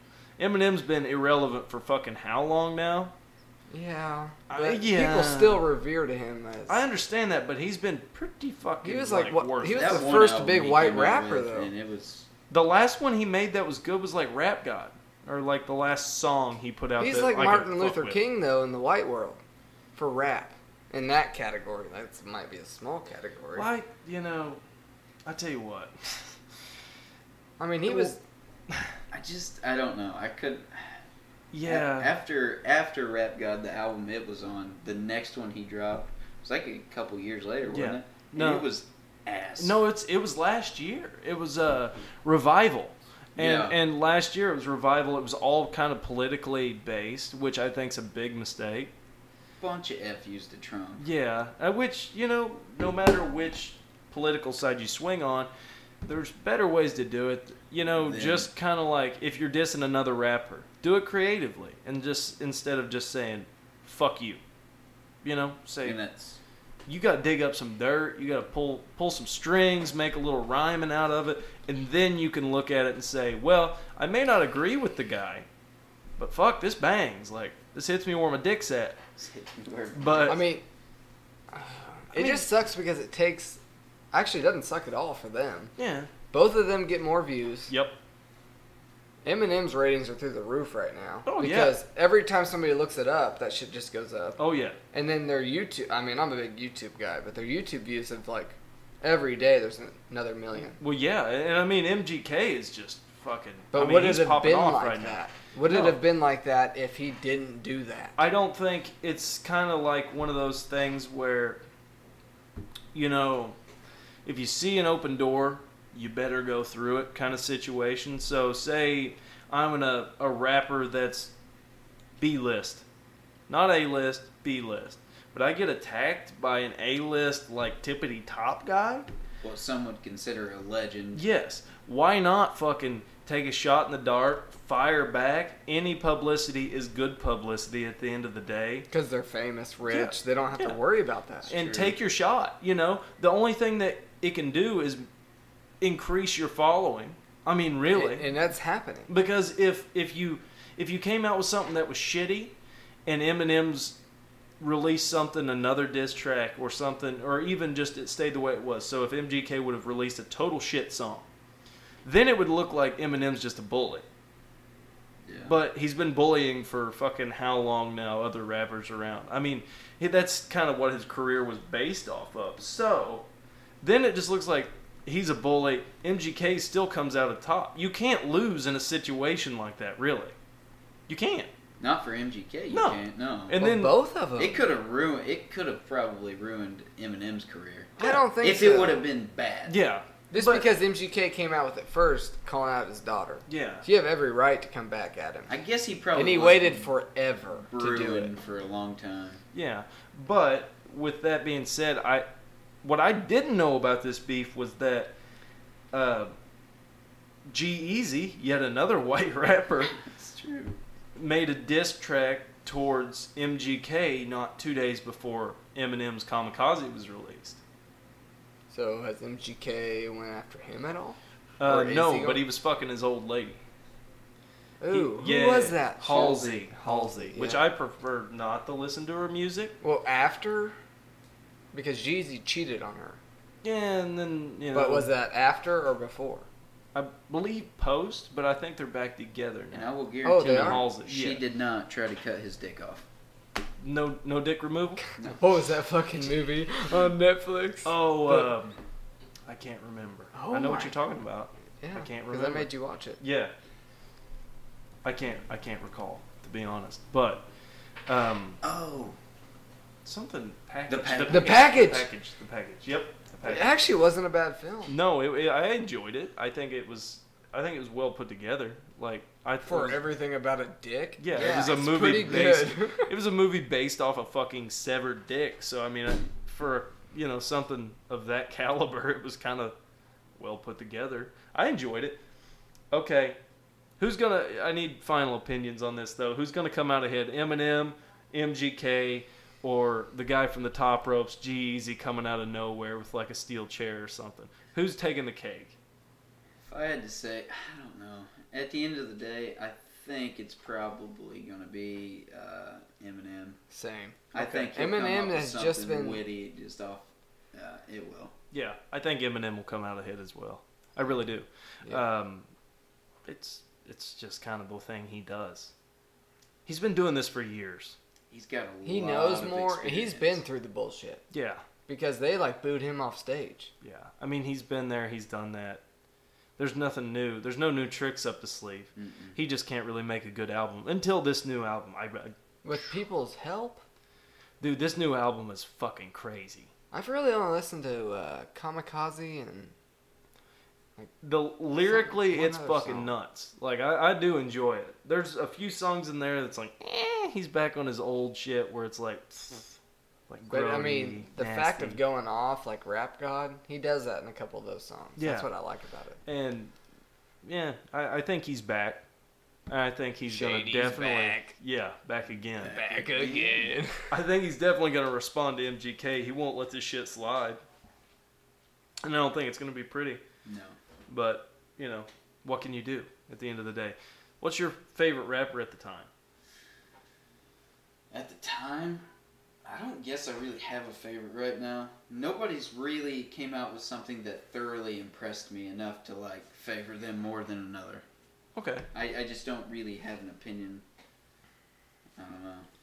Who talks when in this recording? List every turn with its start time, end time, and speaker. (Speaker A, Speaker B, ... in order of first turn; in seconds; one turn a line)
Speaker A: 0.4-3.1
Speaker B: 3.7-6.8
Speaker A: 4.5-5.6
Speaker A: 6.7-10.1
Speaker B: 8.8-11.7
Speaker C: 9.7-12.3
Speaker A: 12.5-18.2
Speaker B: 17.0-19.4
Speaker B: 19.9-23.7
Speaker A: 23.5-24.6
Speaker A: 25.2-26.3
Speaker B: 27.6-28.2
Speaker C: 29.1-31.0
Speaker A: 31.5-32.1
Speaker C: 31.6-39.8
Speaker A: 37.7-38.7
Speaker A: 39.6-48.9
Speaker C: 43.4-43.8
Speaker C: 49.6-51.0
Speaker A: 51.0-55.5
Speaker A: 56.0-64.4
Speaker C: 58.0-58.5
Speaker A: 65.2-66.0
Speaker C: 65.8-66.4
Speaker A: 66.8-75.5
Speaker A: 76.2-79.0
Speaker C: 79.2-80.4
Speaker A: 79.9-80.4
Speaker B: 80.3-80.6
Speaker B: 81.5-83.6
Speaker A: 82.1-82.4
Speaker B: 84.1-85.7
Speaker A: 85.8-86.1
Speaker B: 86.3-87.7
Speaker A: 87.7-88.0
Speaker B: 89.2-94.4
Speaker A: 91.2-91.8
Speaker A: 94.4-94.8
Speaker B: 94.9-100.8
Speaker A: 100.6-106.0
Speaker B: 103.7-108.2
Speaker A: 108.2-111.6
Speaker A: 112.9-113.6
Speaker A: 114.2-121.3
Speaker A: 122.2-122.8
Speaker A: 123.5-129.1
Speaker C: 129.4-131.2
Speaker A: 131.1-138.9
Speaker B: 138.9-141.5
Speaker A: 139.9-140.8
Speaker C: 141.4-142.0
Speaker A: 141.5-145.1
Speaker A: 145.8-148.3
Speaker B: 147.9-149.1
Speaker A: 149.1-152.5
Speaker A: 153.1-154.0
Speaker A: 154.6-161.2
Speaker A: 162.0-164.0
Speaker C: 165.2-165.5
Speaker A: 165.4-173.2
Speaker A: 173.8-180.3
Speaker A: 181.1-181.5
Speaker C: 181.8-183.6
Speaker A: 182.7-184.0
Speaker B: 183.6-184.6
Speaker C: 184.4-189.8
Speaker B: 188.0-189.0
Speaker A: 189.7-190.7
Speaker B: 190.3-195.5
Speaker A: 193.5-193.8
Speaker C: 195.5-196.9
Speaker B: 196.1-198.3
Speaker C: 197.7-199.4
Speaker A: 199.5-202.2
Speaker A: 202.8-205.1
Speaker A: 205.9-206.3
Speaker A: 207.5-210.0
Speaker C: 209.9-210.8
Speaker A: 211.2-217.6
Speaker B: 218.7-222.4
Speaker A: 221.6-223.6
Speaker B: 224.8-227.6
Speaker A: 224.9-229.7
Speaker C: 226.1-226.4
Speaker B: 229.8-230.8
Speaker B: 231.7-233.2
Speaker A: 233.6-235.1
Speaker B: 234.7-236.5
Speaker A: 236.9-241.4
Speaker C: 239.7-243.1
Speaker B: 240.2-240.8
Speaker A: 243.8-245.0
Speaker B: 245.2-248.5
Speaker A: 247.8-248.7
Speaker A: 249.4-253.5
Speaker B: 250.3-250.9
Speaker B: 251.8-253.2
Speaker A: 255.0-257.4
Speaker A: 258.1-258.6
Speaker C: 258.6-259.2
Speaker A: 260.0-263.7
Speaker C: 260.9-261.7
Speaker B: 261.3-262.1
Speaker B: 263.4-264.9
Speaker A: 264.9-270.0
Speaker B: 269.7-273.1
Speaker A: 271.2-279.7
Speaker A: 280.4-282.2
Speaker A: 282.9-283.4
Speaker A: 284.0-295.8
Speaker C: 296.6-303.6
Speaker B: 303.7-306.2
Speaker C: 304.3-308.3
Speaker A: 308.5-312.5
Speaker A: 313.2-315.7
Speaker A: 316.6-318.0
Speaker C: 318.3-320.4
Speaker B: 318.8-321.2
Speaker A: 321.3-321.6
Speaker B: 321.9-323.7
Speaker A: 323.8-325.8
Speaker A: 326.6-332.3
Speaker C: 328.9-329.4
Speaker B: 332.6-333.8
Speaker A: 334.6-336.7
Speaker B: 336.9-339.7
Speaker A: 341.2-349.8
Speaker B: 341.7-343.1
Speaker A: 350.3-352.0
Speaker B: 350.5-356.2
Speaker A: 355.2-355.5
Speaker A: 356.2-356.7
Speaker A: 357.4-359.0
Speaker A: 359.7-362.8
Speaker B: 360.3-361.5
Speaker C: 362.6-363.7
Speaker B: 362.6-364.1
Speaker A: 364.1-367.6
Speaker A: 369.0-370.2
Speaker C: 370.4-370.8
Speaker A: 371.1-376.1
Speaker C: 378.1-379.1
Speaker C: 379.6-388.0
Speaker A: 388.5-388.9
Speaker C: 388.9-390.8
Speaker C: 392.1-392.7